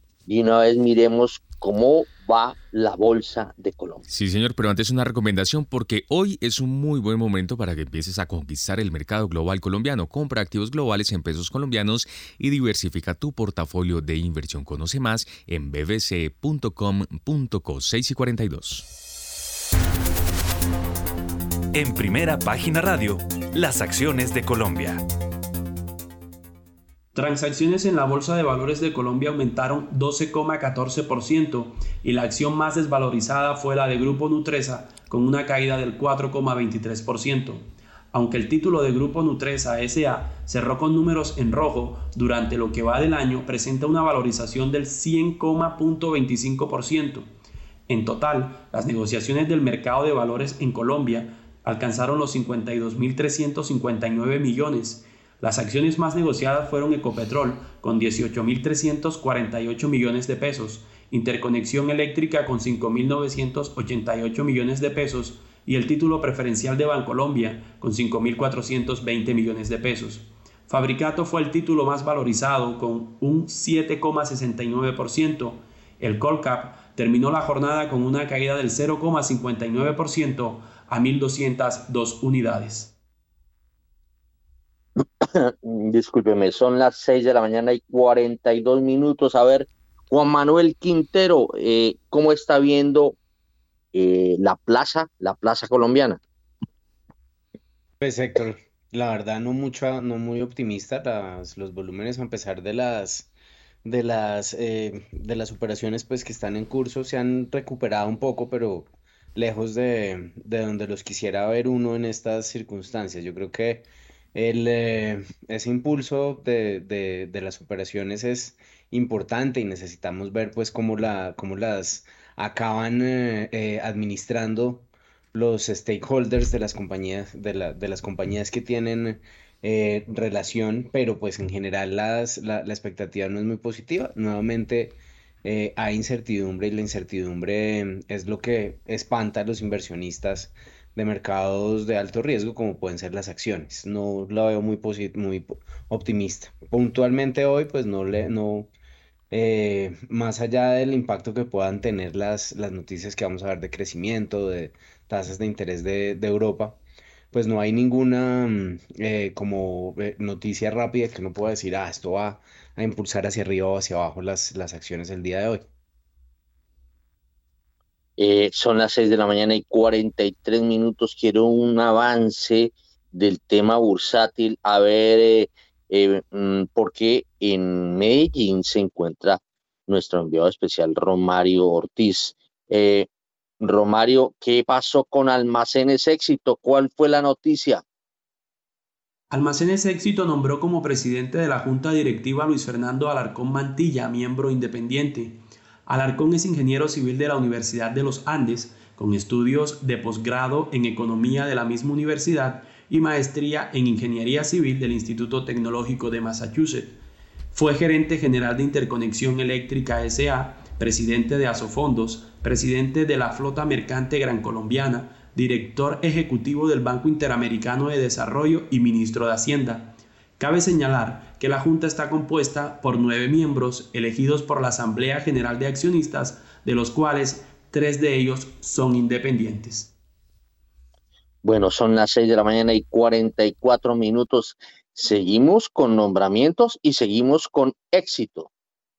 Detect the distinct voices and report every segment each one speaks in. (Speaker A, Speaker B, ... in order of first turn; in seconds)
Speaker A: 0.2-4.0, 85.2-93.2, 93.9-96.2, 168.2-183.1, 183.6-187.8, 231.4-238.5
Speaker B: 4.1-18.9
Speaker C: 21.7-25.0
Speaker D: 27.1-47.3, 47.9-82.9, 189.3-207.0, 207.5-229.9
Speaker E: 98.0-103.3, 103.8-148.7, 149.3-156.8, 157.3-165.6